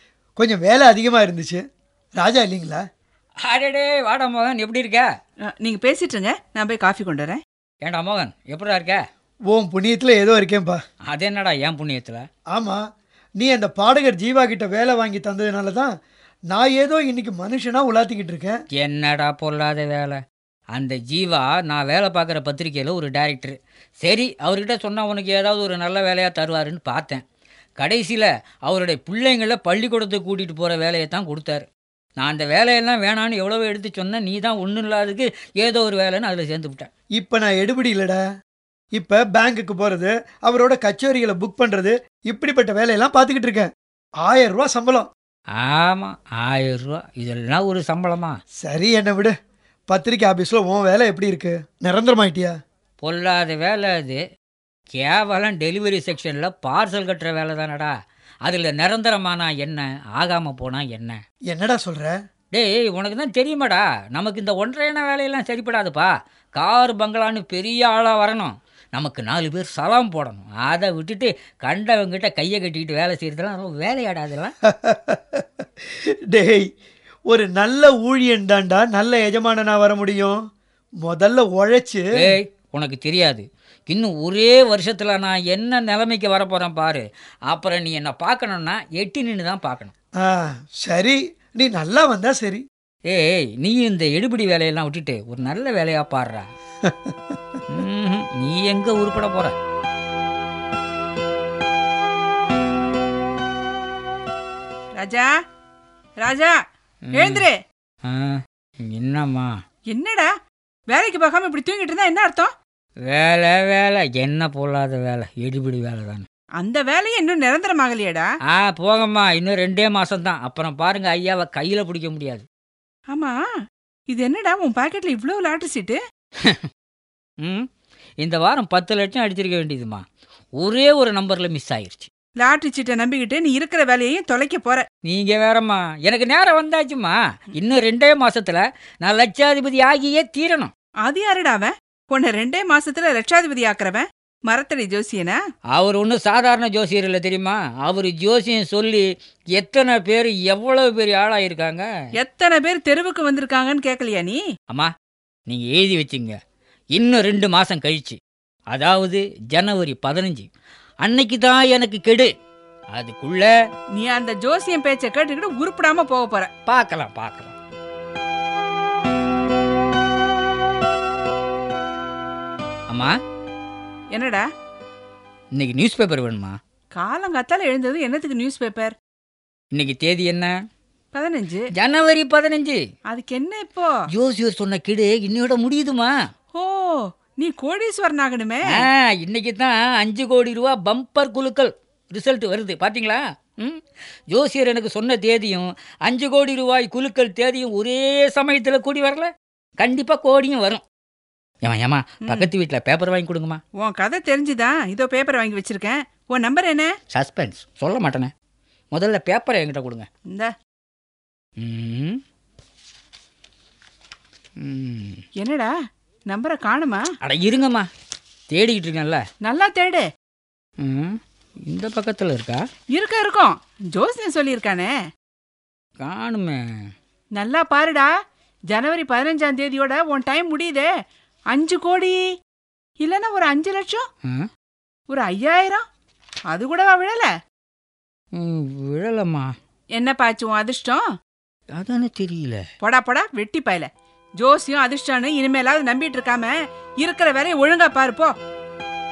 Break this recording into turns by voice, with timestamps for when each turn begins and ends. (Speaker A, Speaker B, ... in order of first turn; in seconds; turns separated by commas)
Speaker A: 0.4-1.6, Speaker A: 2.2-2.8, Speaker B: 3.4-5.1, Speaker C: 5.6-7.4, Speaker B: 7.8-9.0, Speaker A: 9.5-10.8, Speaker B: 11.1-12.2, Speaker A: 12.5-12.8, Speaker A: 13.4-15.9, Speaker A: 16.5-18.6, Speaker B: 18.8-20.2, Speaker B: 20.7-27.2, Speaker B: 27.8-31.7, Speaker B: 32.2-36.9, Speaker A: 37.2-38.2, Speaker A: 39.0-45.1, Speaker B: 45.6-48.4, Speaker A: 48.6-49.3, Speaker A: 49.9-52.5, Speaker B: 53.0-54.2, Speaker B: 55.0-57.9, Speaker B: 58.5-61.2, Speaker A: 61.5-62.1, Speaker B: 62.5-74.5, Speaker A: 74.7-76.7, Speaker A: 77.3-80.4, Speaker A: 81.0-82.0, Speaker B: 82.2-89.9, Speaker A: 90.2-92.6, Speaker B: 93.1-96.5, Speaker A: 96.9-97.1, Speaker B: 97.7-99.5, Speaker C: 105.0-105.3, Speaker C: 106.2-106.5, Speaker B: 107.1-107.5, Speaker C: 107.2-107.6, Speaker B: 108.1-109.5, Speaker C: 109.9-110.3, Speaker C: 110.9-112.5, Speaker B: 113.1-116.3, Speaker C: 116.6-118.3, Speaker B: 118.5-122.5, Speaker C: 123.1-123.4, Speaker C: 124.1-126.0, Speaker B: 128.2-130.0, Speaker B: 130.6-132.1, Speaker C: 132.4-134.8, Speaker B: 135.1-140.7, Speaker C: 141.0-145.4, Speaker B: 145.7-149.1, Speaker B: 149.6-151.9, Speaker C: 152.2-154.4, Speaker B: 155.5-156.4, Speaker B: 156.9-158.2, Speaker B: 158.7-160.5, Speaker B: 161.0-162.3, Speaker B: 162.9-163.5, Speaker C: 163.9-166.5, Speaker B: 166.7-167.6, Speaker C: 174.1-174.5, Speaker B: 175.6-176.6, Speaker C: 176.9-178.9, Speaker B: 179.8-180.5, Speaker C: 181.1-181.7, Speaker B: 181.8-182.8, Speaker C: 183.1-183.9, Speaker B: 184.1-186.2, Speaker C: 186.5-188.9, Speaker B: 188.7-200.8, Speaker B: 201.6-203.6, Speaker C: 202.2-202.5, Speaker C: 203.8-206.9, Speaker B: 207.1-208.3, Speaker B: 208.9-210.1, Speaker B: 211.6-212.2, Speaker B: 214.6-215.2, Speaker C: 215.4-215.7, Speaker C: 216.3-217.0, Speaker B: 217.2-217.9, Speaker B: 218.5-219.2, Speaker C: 219.4-220.1, Speaker B: 220.8-222.6, Speaker C: 222.9-224.9, Speaker B: 226.0-226.6, Speaker C: 227.3-228.1, Speaker C: 228.7-230.9, Speaker C: 231.5-232.2, Speaker C: 233.0-234.1, Speaker C: 235.1-235.8, Speaker C: 236.5-237.3, Speaker B: 238.4-239.5, Speaker C: 239.9-241.0, Speaker B: 241.8-242.6, Speaker C: 242.8-243.9, Speaker C: 244.4-248.3